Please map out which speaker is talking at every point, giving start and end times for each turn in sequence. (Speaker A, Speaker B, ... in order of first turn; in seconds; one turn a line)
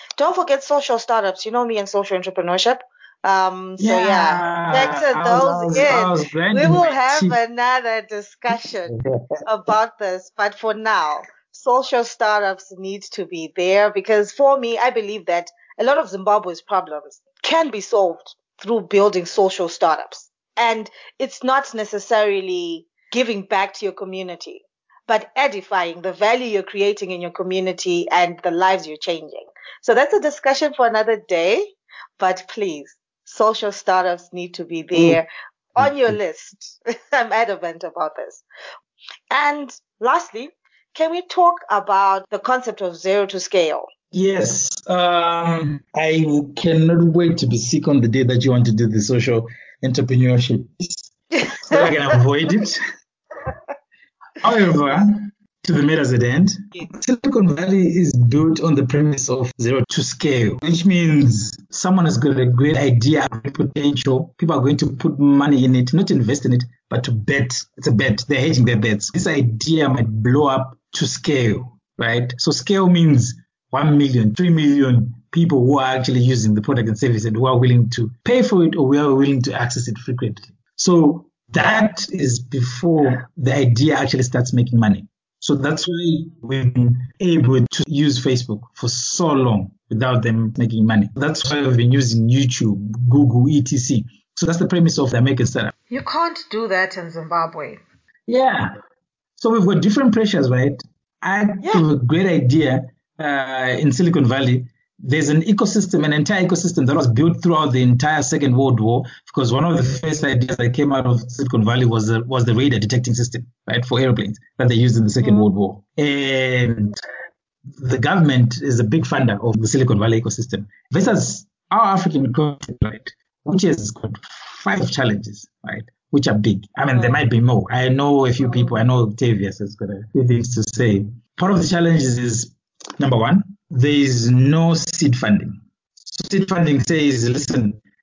Speaker A: 0.2-8.9
Speaker B: 3.8-7.4
Speaker B: 8.5-9.4
Speaker A: 9.4-38.4
Speaker B: 34.9-35.2
Speaker B: 35.8-36.1
Speaker A: 39.3-43.9
Speaker B: 44.1-52.8
Speaker A: 51.3-52.2
Speaker B: 54.4-95.7
Speaker A: 95.9-97.8
Speaker B: 98.3-98.7
Speaker B: 99.4-116.9
Speaker A: 115.2-115.5
Speaker B: 117.8-137.8
Speaker A: 126.9-127.2